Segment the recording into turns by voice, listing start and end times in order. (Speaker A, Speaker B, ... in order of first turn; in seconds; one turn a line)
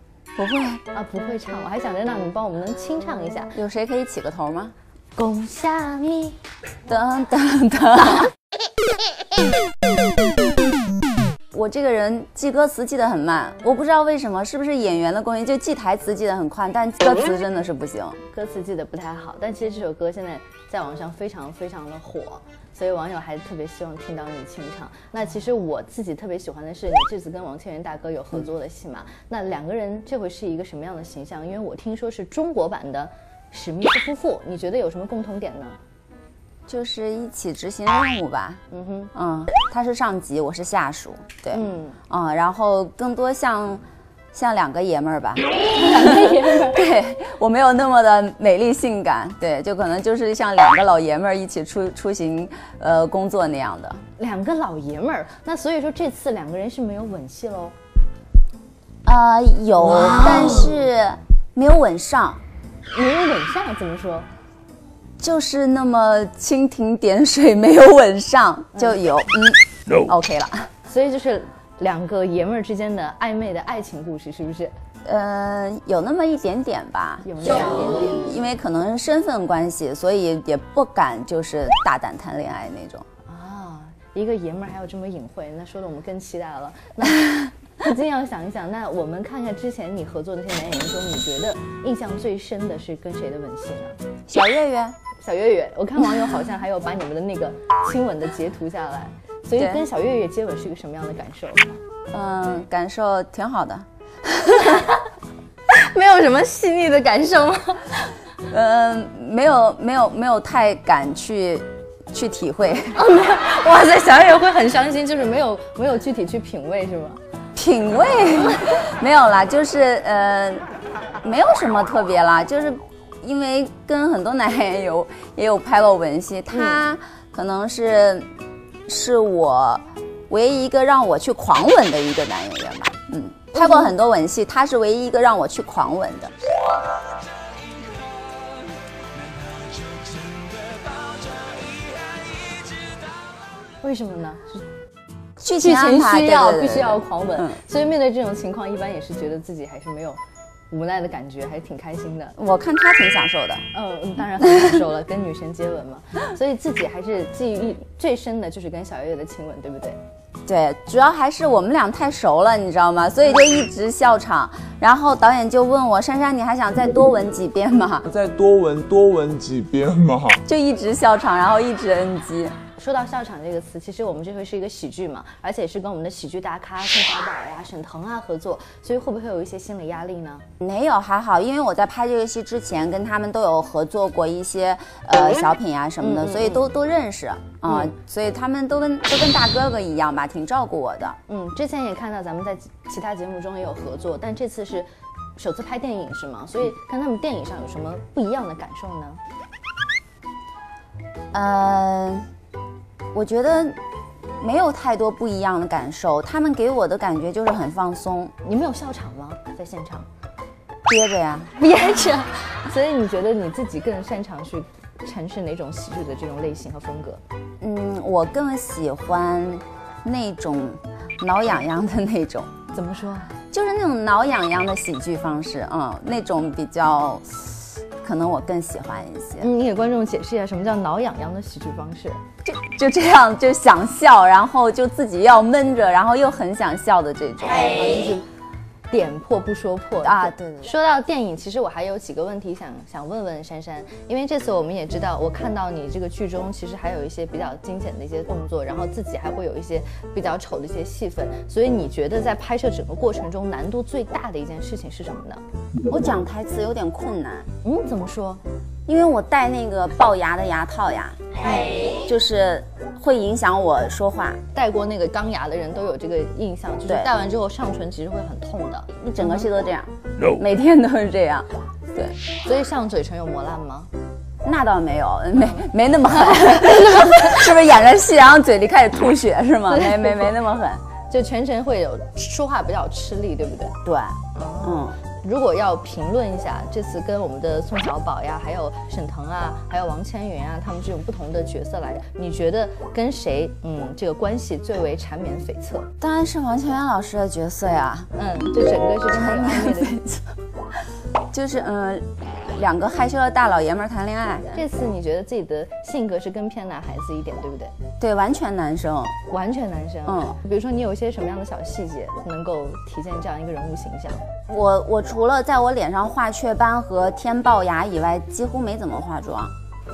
Speaker A: 0.3-0.8
Speaker B: 0.9-3.5
Speaker A: 3.5-4.7
Speaker B: 5.2-6.4
Speaker A: 6.9-8.3
Speaker A: 11.5-18.2
Speaker B: 18.3-35.8
Speaker A: 36.7-38.6
Speaker B: 38.7-39.1
Speaker A: 39.1-43.8
Speaker B: 41.5-42.0
Speaker A: 44.3-54.0
Speaker B: 45.7-46.9
Speaker B: 54.2-57.8
Speaker A: 59.0-62.4
Speaker B: 62.9-64.3
Speaker A: 65.2-70.7
Speaker B: 70.9-74.7
Speaker A: 75.0-83.0
Speaker B: 77.2-78.3
Speaker B: 83.2-94.0
Speaker A: 94.3-95.0
Speaker B: 95.2-101.8
Speaker A: 99.6-99.8
Speaker A: 102.1-103.8
Speaker A: 104.4-104.6
Speaker B: 104.5-105.0
Speaker B: 105.7-108.2
Speaker A: 108.5-113.0
Speaker B: 112.9-117.2
Speaker A: 117.5-120.7
Speaker A: 121.2-128.3
Speaker B: 126.5-126.8
Speaker A: 128.9-136.3
Speaker B: 133.5-133.9
Speaker B: 143.8-144.6
Speaker A: 145.4-147.5
Speaker B: 145.6-150.2
Speaker B: 150.7-152.3
Speaker A: 152.4-153.6
Speaker B: 153.7-160.0
Speaker A: 160.4-168.1
Speaker C: 168.0-170.4
Speaker A: 170.4-172.5
Speaker B: 172.8-180.4
Speaker A: 180.6-191.2
Speaker B: 186.0-186.6
Speaker B: 187.7-187.9
Speaker B: 191.3-199.2
Speaker A: 201.3-202.3
Speaker A: 203.1-203.8
Speaker A: 204.4-208.3
Speaker B: 208.4-210.1
Speaker A: 210.9-211.5
Speaker B: 211.6-217.2
Speaker A: 217.6-222.5
Speaker B: 222.7-223.3
Speaker A: 223.5-229.5
Speaker B: 229.4-232.2
Speaker A: 232.4-237.8
Speaker B: 237.6-238.2
Speaker B: 238.9-255.4
Speaker A: 240.0-240.7
Speaker A: 255.9-257.5
Speaker B: 257.6-258.4
Speaker A: 258.9-261.2
Speaker A: 261.8-264.4
Speaker B: 264.5-269.5
Speaker A: 269.0-272.1
Speaker B: 272.4-273.9
Speaker A: 274.4-280.8
Speaker B: 275.4-275.7
Speaker B: 276.2-277.3
Speaker B: 279.7-280.3
Speaker B: 281.1-283.8
Speaker A: 283.8-285.0
Speaker B: 284.3-295.9
Speaker A: 296.0-298.1
Speaker B: 298.1-299.9
Speaker A: 299.1-300.3
Speaker A: 301.3-304.6
Speaker B: 304.5-307.7
Speaker A: 308.0-309.1
Speaker B: 309.3-314.2
Speaker A: 310.1-310.4
Speaker A: 314.5-319.5